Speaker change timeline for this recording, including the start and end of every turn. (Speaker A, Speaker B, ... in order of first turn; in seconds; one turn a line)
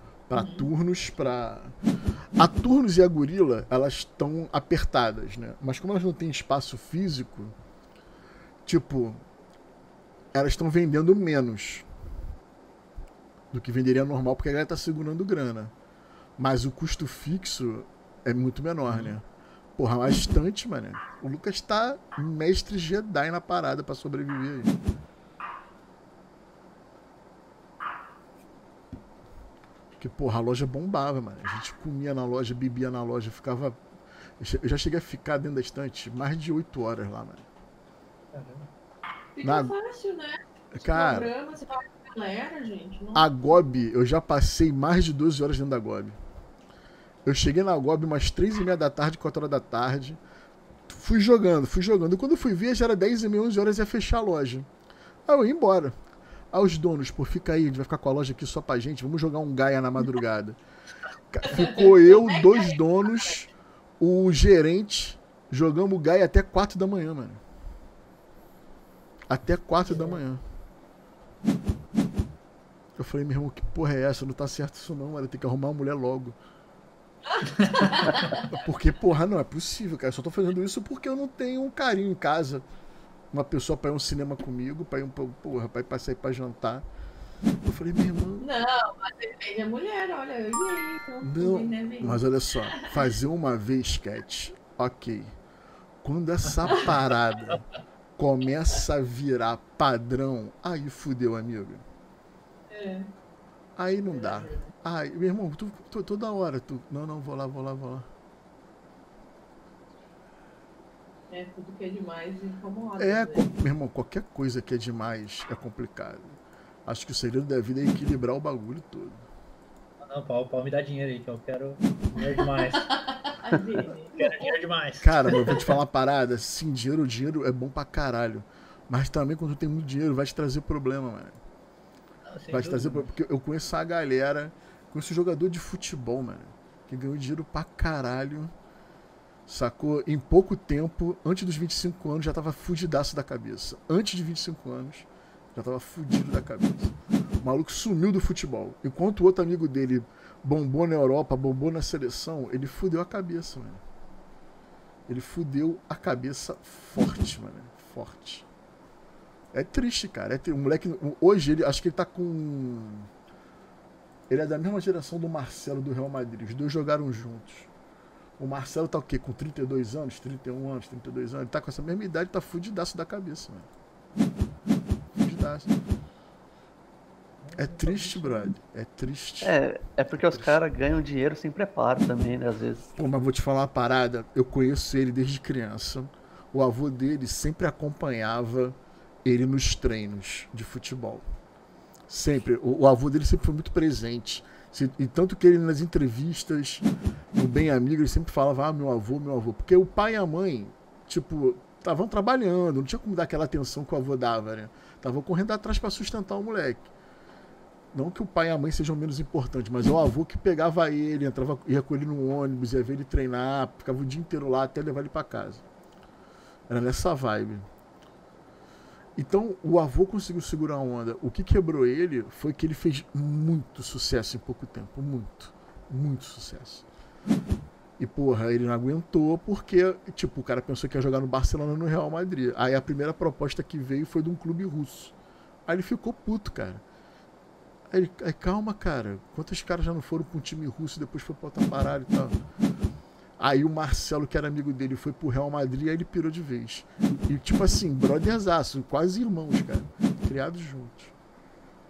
Speaker A: 0.3-1.8
Speaker B: 0.3-0.7
Speaker A: 2.4-7.5
Speaker A: 8.7-9.2
Speaker A: 10.3-11.8
Speaker A: 13.5-15.7
Speaker A: 16.4-19.2
Speaker C: 18.9-19.1
Speaker A: 19.8-24.7
Speaker A: 30.0-33.8
Speaker A: 34.4-37.5
Speaker C: 38.3-38.7
Speaker B: 39.4-43.3
Speaker A: 39.4-39.7
Speaker A: 40.7-41.3
Speaker A: 43.1-46.2
Speaker A: 47.2-50.2
Speaker A: 50.9-54.7
Speaker A: 55.2-56.0
Speaker A: 56.5-60.6
Speaker A: 61.3-67.4
Speaker B: 61.5-63.3
Speaker A: 69.3-70.4
Speaker C: 69.9-70.2
Speaker A: 73.0-76.3
Speaker B: 77.4-78.4
Speaker C: 77.7-78.1
Speaker A: 78.3-82.6
Speaker A: 83.3-86.8
Speaker A: 87.6-88.5
Speaker B: 88.4-93.0
Speaker A: 91.2-95.3
Speaker A: 96.0-97.6
Speaker A: 98.2-101.8
Speaker B: 102.7-103.1
Speaker A: 103.8-108.1
Speaker B: 104.0-104.7
Speaker B: 111.3-113.5
Speaker A: 113.0-119.2
Speaker C: 120.0-122.9
Speaker B: 122.2-124.5
Speaker C: 124.1-125.7
Speaker A: 125.0-131.4
Speaker C: 132.3-133.1
Speaker A: 132.5-138.5
Speaker A: 139.5-153.8
Speaker A: 155.1-158.4
Speaker A: 159.5-163.1
Speaker A: 164.3-167.7
Speaker A: 168.4-173.7
Speaker A: 175.1-175.7
Speaker C: 177.4-178.5
Speaker A: 177.5-179.6
Speaker D: 179.4-182.8
Speaker A: 180.1-180.6
Speaker A: 182.9-191.2
Speaker A: 192.1-206.9
Speaker A: 207.9-215.6
Speaker A: 216.7-217.7
Speaker A: 219.2-226.8
Speaker A: 228.0-235.1
Speaker A: 235.7-236.8
Speaker A: 237.9-242.4
Speaker A: 243.4-251.1